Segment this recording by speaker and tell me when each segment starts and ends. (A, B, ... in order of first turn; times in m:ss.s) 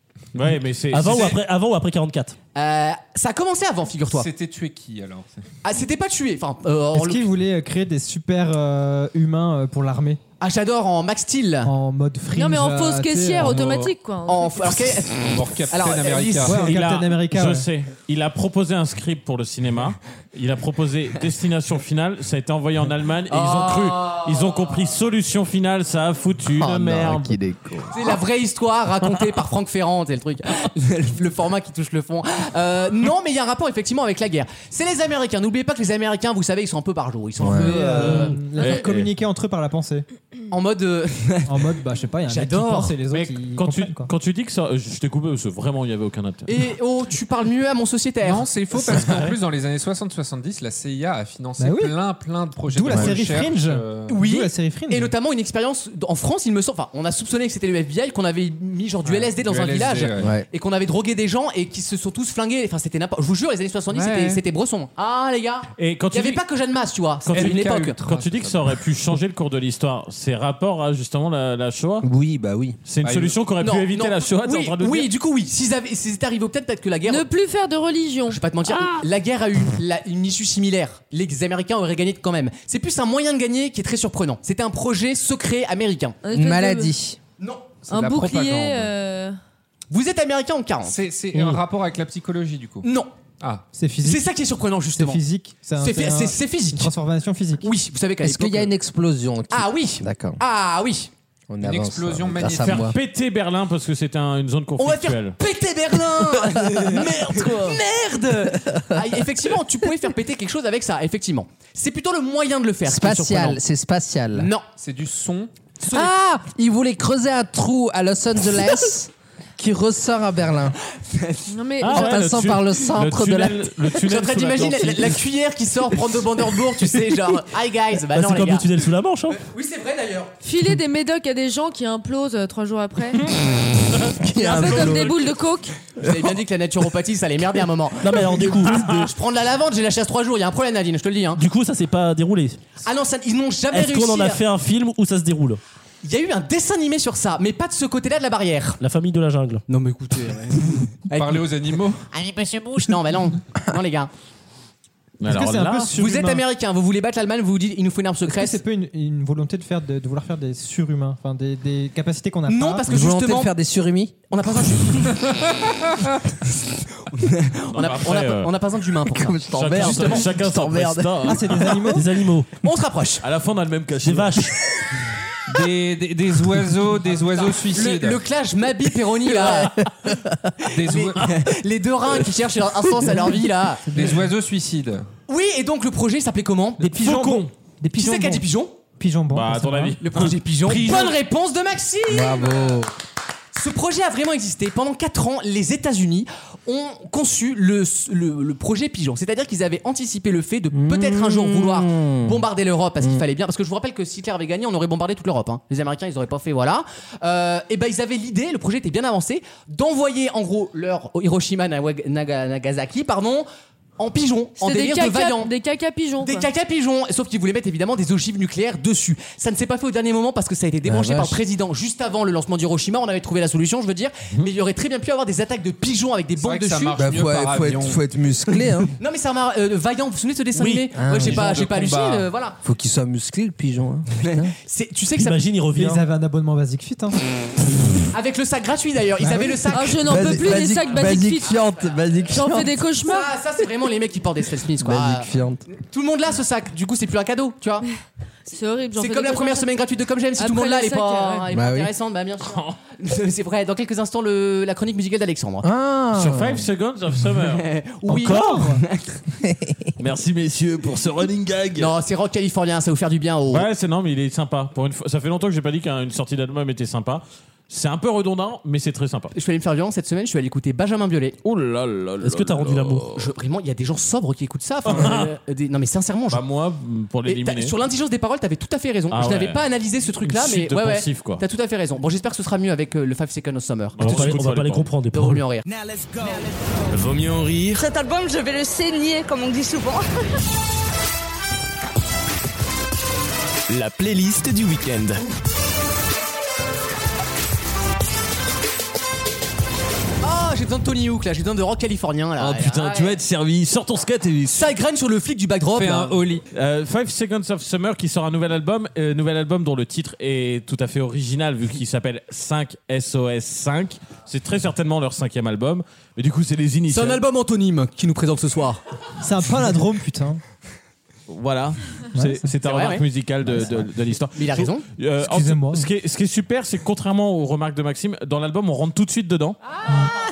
0:00.3-0:01.4 A
0:00.9-0:02.4 B
0:02.6-0:04.3 C
0:04.1-0:05.3 D
0:05.6-0:07.3 C
0:06.9-0:10.2 E
0:10.4-0:11.7 C
0:11.6-0:13.6 E
0:12.3-0:14.7 F
0:13.4-0:13.9 D
0:14.3-0:16.6 C
0:15.2-0:16.8 D
0:16.4-0:17.7 E
0:16.6-0:27.4 A
0:23.3-0:24.5 C
0:26.5-0:28.2 G
0:27.9-0:38.7 C
0:37.4-0:37.9 G
0:37.5-0:40.1 E
0:38.6-0:39.1 A
0:40.5-0:41.6 C
0:41.5-0:44.1 E
0:42.3-0:43.0 C
0:43.1-0:46.6 A
0:46.5-0:49.0 C
0:48.2-0:54.2 D
0:51.6-0:52.0 E
0:52.7-0:55.1 E
0:54.1-1:08.0 C
0:59.0-1:00.4 D
1:00.2-1:00.5 G
1:03.9-1:04.4 D
1:05.8-1:06.4 A
1:07.3-1:12.1 A
1:07.3-1:08.8 D
1:12.0-1:12.8 G
1:12.9-1:15.1 A
1:13.0-1:13.4 D
1:13.6-1:17.3 C
1:17.1-1:18.4 F
1:18.3-1:26.2 C
1:26.2-1:26.9 F
1:26.3-1:27.2 G
1:27.4-1:27.8 C
1:27.9-1:28.9 D
1:27.9-1:29.4 F
1:29.9-1:31.0 C
1:30.8-1:32.9 D
1:32.8-1:33.1 C
1:33.4-1:33.7 D
1:33.7-1:34.3 E
1:34.0-1:35.2 C
1:35.0-1:37.7 E
1:35.8-1:36.9 C
1:37.6-1:38.7 C
1:38.2-1:40.4 G
1:39.5-1:41.1 C
1:41.5-1:43.0 G
1:41.6-1:42.9 D
1:42.6-1:45.4 A
1:44.8-1:53.6 C
1:46.4-1:47.8 G
1:48.5-1:49.0 G
1:52.8-1:54.5 G
1:54.4-1:54.6 C
1:54.8-1:55.5 D
1:55.8-1:56.1 C
1:55.9-2:00.8 G
2:01.1-2:01.5 C
2:01.5-2:02.2 F
2:01.8-2:05.2 A
2:01.9-2:03.8 G
2:04.1-2:08.7 C
2:08.1-2:09.4 B
2:09.3-2:10.4 C
2:10.4-2:13.2 F
2:13.4-2:15.2 A
2:14.1-2:15.2 G
2:14.4-2:15.8 F
2:16.0-2:21.4 C
2:16.0-2:16.4 G
2:18.0-2:19.1 B
2:21.4-2:22.6 B
2:22.8-2:24.4 C
2:23.7-2:25.6 B
2:26.0-2:28.8 C
2:28.8-2:29.6 B
2:29.7-2:31.5 C
2:31.1-2:32.0 D
2:32.1-2:34.1 C
2:35.2-2:35.9 A
2:35.3-2:36.4 E
2:36.0-2:38.6 C
2:38.3-2:42.9 E
2:42.5-2:43.5 C
2:42.9-2:44.2 G
2:44.3-2:45.5 C
2:46.7-2:50.3 C
2:47.7-2:48.5 A
2:49.1-2:51.5 G
2:49.5-2:51.6 A
2:51.2-2:52.1 E
2:51.9-2:52.5 B
2:52.6-2:53.2 C
2:53.2-2:54.5 A
2:54.0-2:54.5 B
2:55.5-2:58.2 D
2:57.4-2:59.8 C
2:59.5-3:00.4 G
3:00.6-3:03.9 C
3:00.7-3:01.5 D
3:03.9-3:04.2 E
3:03.9-3:05.1 D
3:05.3-3:07.4 C
3:06.8-3:08.5 E
3:08.0-3:08.8 C
3:09.0-3:10.0 E
3:09.3-3:10.4 A
3:10.0-3:12.8 C
3:10.6-3:11.2 D
3:12.1-3:12.9 G
3:13.5-3:33.5 C
3:20.7-3:22.4 G
3:34.0-3:35.5 C
3:34.6-3:36.5 F
3:36.2-3:47.0 C
3:40.8-3:41.4 G
3:46.4-3:48.0 D
3:47.0-3:48.9 G
3:49.0-3:52.6 C
3:51.0-3:51.4 G
3:51.1-3:52.3 D
3:52.6-3:54.6 G
3:54.2-3:55.4 C
3:55.2-3:56.0 B
3:55.7-3:57.2 E
3:58.1-4:02.2 C
3:59.3-4:02.8 G
3:59.7-4:01.6 F
4:02.3-4:03.3 F
4:03.0-4:07.9 C
4:04.8-4:05.6 G
4:08.5-4:09.7 F
4:09.0-4:15.7 C
4:10.4-4:11.5 F
4:11.5-4:11.9 G
4:12.4-4:12.8 A
4:15.6-4:16.7 G
4:16.1-4:17.6 A
4:17.5-4:19.2 C
4:18.1-4:18.8 E
4:19.4-4:19.9 G
4:20.0-4:21.9 A
4:21.8-4:23.7 C
4:23.5-4:29.3 A
4:29.3-4:31.4 C
4:31.4-4:33.2 A
4:32.2-4:33.1 B
4:33.2-4:36.4 C
4:34.9-4:35.3 A
4:36.3-4:37.8 A
4:37.3-4:44.3 C
4:39.1-4:39.6 A
4:40.2-4:41.4 A
4:44.0-4:44.9 A
4:44.0-4:45.4 B
4:45.1-4:45.6 C
4:46.9-4:47.8 H
4:47.8-4:50.0 I
4:53.7-4:55.2 H
5:00.2-5:03.2 C
5:02.4-5:04.7 A
5:04.5-5:06.2 C
5:05.7-5:06.4 D
5:06.5-5:17.2 A
5:16.9-5:18.8 C
5:19.2-5:20.4 E
5:21.3-5:29.6 A
5:22.2-5:22.5 E
5:22.6-5:23.0 C
5:23.5-5:23.9 G
5:24.4-5:24.8 C
5:25.2-5:25.9 E